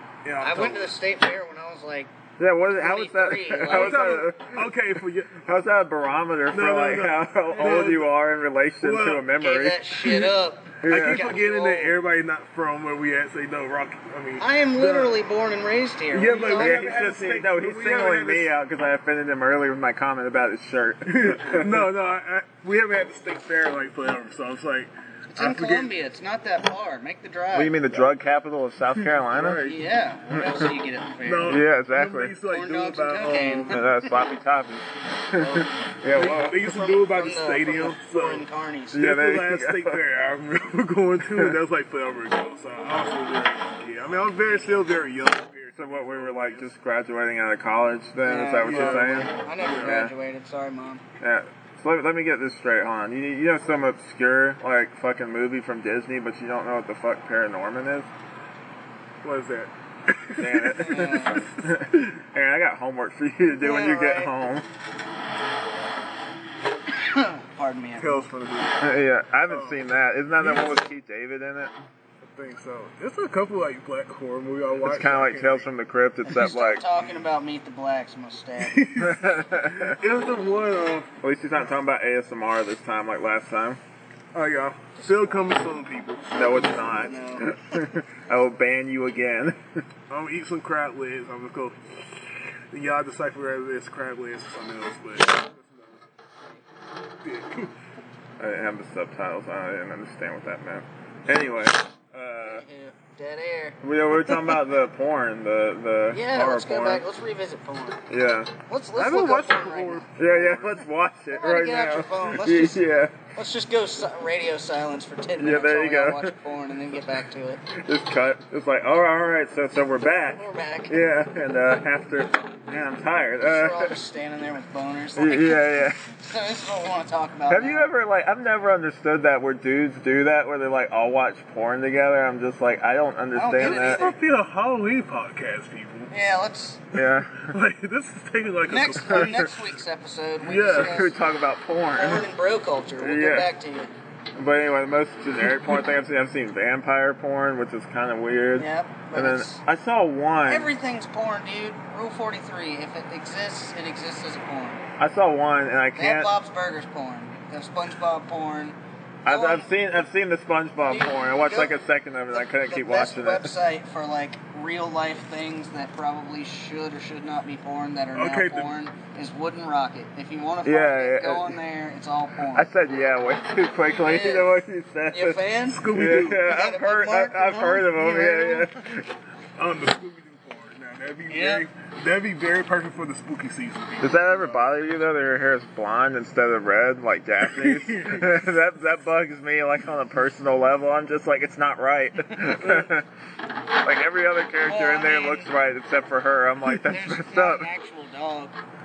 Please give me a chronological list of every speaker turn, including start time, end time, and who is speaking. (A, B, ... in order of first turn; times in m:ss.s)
0:00.2-0:00.9 A
0:00.4-0:02.1 B
0:02.4-0:04.7 C
0:02.7-0:04.2 B
0:03.7-0:05.4 A
0:05.3-0:10.2 C
0:06.5-0:08.1 A
0:08.8-0:09.3 A
0:09.3-0:12.0 B
0:10.8-0:11.2 C
0:10.8-0:15.2 A
0:14.4-0:16.9 B
0:16.1-0:18.5 A
0:16.5-0:21.8 C
0:21.1-0:25.9 A
0:25.3-0:27.8 B
0:27.5-0:29.6 C
0:29.0-0:29.9 A
0:29.6-0:31.6 B
0:30.3-0:30.6 C
0:31.2-0:33.8 A
0:31.4-0:32.3 C
0:32.4-0:33.9 B
0:33.7-0:36.6 C
0:35.4-0:39.0 B
0:36.1-0:46.7 A
0:38.9-0:40.0 C
0:44.4-0:44.8 B
0:45.8-0:50.1 C
0:48.2-0:51.0 B
0:48.6-0:50.0 A
0:51.2-0:58.1 C
0:59.2-1:01.5 A
1:00.4-1:04.7 C
1:00.8-1:01.4 B
1:03.6-1:04.4 B
1:06.9-1:08.2 B
1:08.0-1:08.9 A
1:08.8-1:11.7 C
1:09.5-1:09.8 A
1:10.4-1:10.8 A
1:12.2-1:15.7 A
1:14.8-1:16.8 C
1:16.2-1:19.0 B
1:18.6-1:21.1 A
1:19.0-1:20.0 C
1:21.2-1:23.8 C
1:24.3-1:26.6 A
1:25.0-1:25.5 B
1:26.3-1:29.6 C
1:27.0-1:27.5 B
1:30.1-1:36.0 A
1:37.2-1:37.7 A
1:38.4-1:42.6 C
1:42.4-1:44.4 B
1:43.8-1:47.0 C
1:46.1-1:50.2 B
1:48.1-1:48.5 C
1:48.9-1:50.7 A
1:50.2-1:53.2 C
1:51.3-1:57.7 B
1:55.4-1:56.4 C
1:57.7-2:03.9 C
2:00.4-2:01.0 B
2:03.4-2:07.9 B
2:05.2-2:06.0 C
2:07.5-2:14.1 C
2:13.3-2:14.2 B
2:13.6-2:16.1 A
2:16.1-2:16.8 B
2:16.9-2:17.6 C
2:17.3-2:19.6 A
2:18.7-2:21.1 B
2:19.1-2:19.5 C
2:20.4-2:21.1 A
2:20.7-2:22.3 C
2:22.0-2:23.9 B
2:23.0-2:23.5 C
2:24.4-2:30.7 C
2:28.6-2:29.6 B
2:30.5-2:34.8 B
2:35.0-2:36.3 C
2:36.0-2:39.7 B
2:39.2-2:43.5 C
2:40.8-2:41.8 B
2:42.3-2:52.7 B
2:48.1-2:48.7 A
2:50.6-2:51.6 C
2:52.5-2:59.1 C
2:53.9-2:58.8 B
2:55.7-2:56.5 A
2:59.6-3:04.7 A
3:01.3-3:01.6 B
3:04.0-3:13.1 C
3:07.4-3:08.4 A
3:12.3-3:12.9 B
3:13.8-3:17.7 C
3:14.6-3:15.5 B
3:16.7-3:18.6 B